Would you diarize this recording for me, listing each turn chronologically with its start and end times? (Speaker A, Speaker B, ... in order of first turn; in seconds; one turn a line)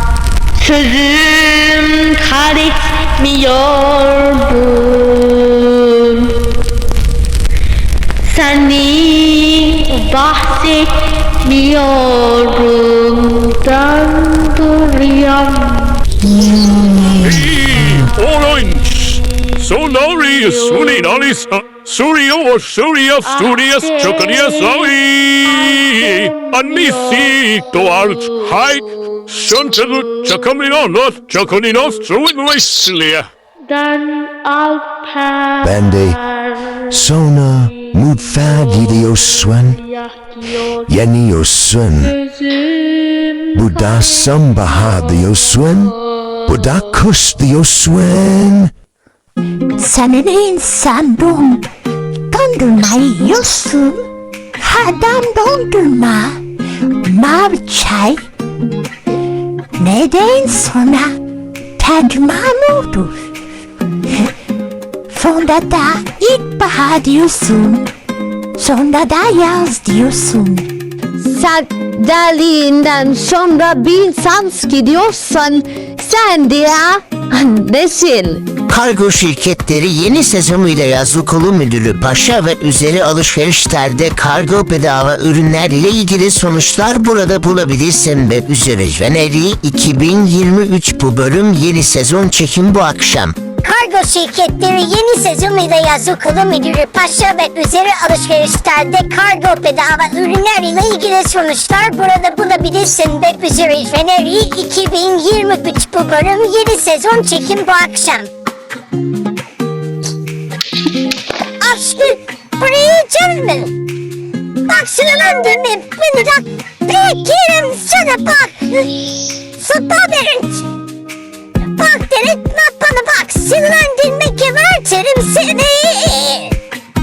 Speaker A: 0.6-6.4
Speaker A: 8.2-16.0
Speaker B: 16.7-17.1
Speaker C: 17.3-33.3
Speaker A: 33.8-35.5
Speaker D: 35.6-39.8
Speaker D: 40.7-42.2
Speaker A: 42.6-43.4
Speaker D: 43.5-48.7
Speaker E: 49.8-51.7
Speaker E: 52.3-54.0
Speaker E: 54.6-56.4
Speaker E: 57.0-58.2
Speaker E: 59.8-61.1
Speaker E: 61.8-63.1
Speaker E: 65.1-67.9
Speaker E: 68.6-70.7
Speaker B: 71.2-78.4
Speaker F: 78.7-93.3
Speaker G: 93.6-108.3
Speaker G: 111.6-113.8
Speaker G: 114.7-120.7
Speaker G: 121.7-126.6